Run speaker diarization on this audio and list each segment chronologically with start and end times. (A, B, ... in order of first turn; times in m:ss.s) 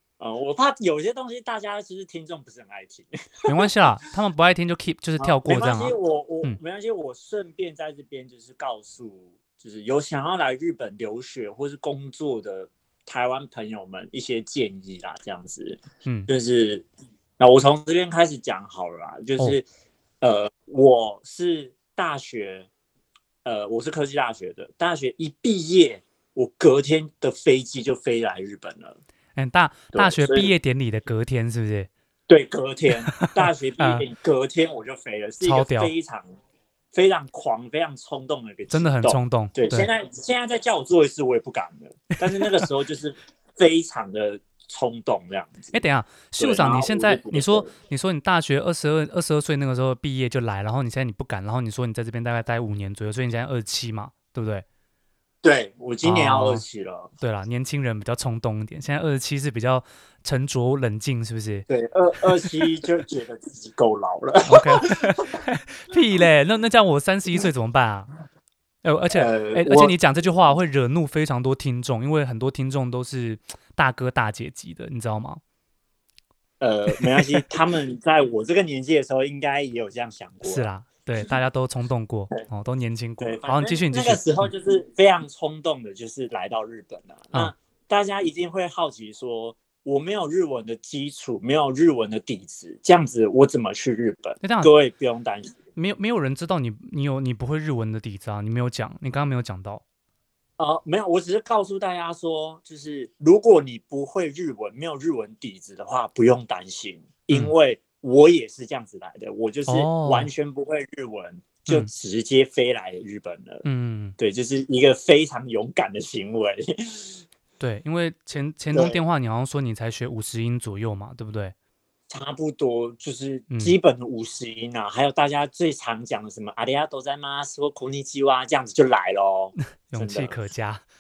0:00.2-0:03.7 A
0:03.5-0:06.6 B
0:05.2-0:16.9 A
0:16.0-0:16.3 B
0:17.4-0:19.6 A
0:20.2-0:22.7 A
0:23.4-0:29.0 A
0:29.4-0:31.9 B
0:29.9-0:30.5 A
0:32.3-0:36.3 A
0:33.2-0:34.0 B
0:35.4-0:35.9 B
0:36.9-0:45.8 A
0:38.7-0:39.9 B
0:45.7-0:54.6 B
0:46.4-0:47.7 A
0:55.4-0:57.1 A
0:56.0-0:56.6 B
0:57.2-1:01.7 B
1:01.7-1:05.4 A
1:04.4-1:08.1 B
1:08.8-1:15.4 B
1:09.1-1:10.0 A
1:16.6-1:20.7 A
1:17.0-1:17.5 B
1:20.4-1:24.5 B
1:23.2-1:35.6 A
1:34.4-1:34.7 B
1:35.8-1:39.8 B
1:40.6-1:53.6 A
1:49.7-1:50.3 B
1:53.6-1:54.2 B
1:54.2-1:57.2 A
1:57.6-2:01.6 B
1:58.7-1:59.0 A
2:02.1-2:10.4 A
2:03.5-2:03.8 B
2:09.9-2:10.8 B